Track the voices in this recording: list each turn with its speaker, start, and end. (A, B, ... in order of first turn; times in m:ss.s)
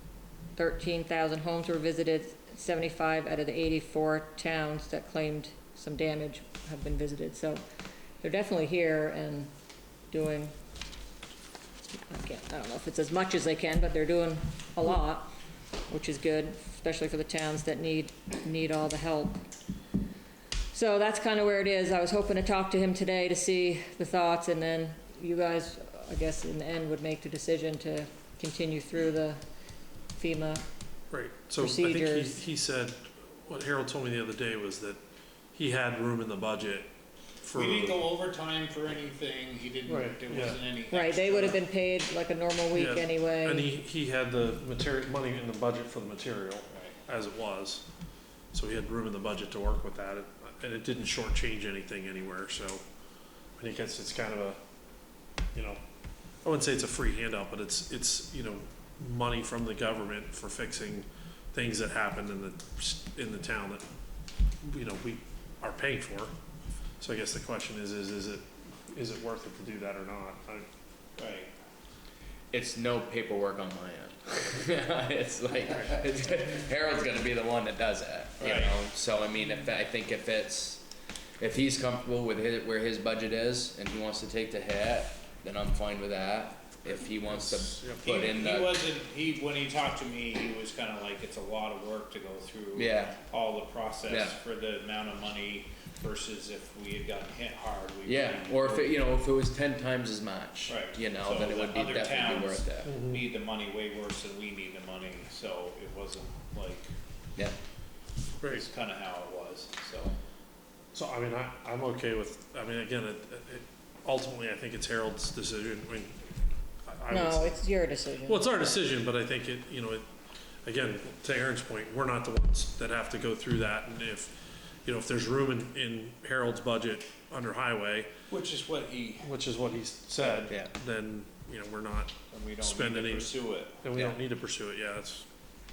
0:00.6-0:07.6 A
0:08.2-0:09.5 A
0:10.1-0:10.5 A
0:11.8-0:15.3 A
0:15.9-0:19.4 A
0:20.7-0:29.4 A
0:30.1-0:30.6 A
0:31.1-0:35.0 B
0:31.6-0:32.4 A
0:35.5-0:36.9 B
0:37.4-0:38.0 B
0:37.5-0:41.6 C
0:39.8-0:40.6 B
0:40.9-0:43.7 A
0:42.7-0:47.8 B
0:48.5-0:52.8 B
0:53.6-0:54.6 B
0:55.5-0:55.8 B
0:56.4-1:03.8 B
1:04.6-1:06.3 B
1:07.0-1:10.7 B
1:11.2-1:11.5 C
1:12.5-1:20.8 D
1:18.4-1:18.8 C
1:21.4-1:28.8 D
1:27.2-1:28.1 B
1:28.0-1:39.0 C
1:32.7-1:33.2 D
1:34.0-1:34.4 D
1:38.0-1:42.9 D
1:40.7-1:46.9 C
1:42.8-1:43.2 B
1:48.4-1:48.6 B
1:48.4-1:50.2 C
1:50.9-1:56.2 B
1:56.9-1:57.5 B
1:57.1-1:58.5 A
1:58.2-2:00.0 B
2:00.6-2:08.1 B
2:08.3-2:09.4 C
2:09.2-2:15.2 B
2:10.2-2:10.7 D
2:12.3-2:13.8 C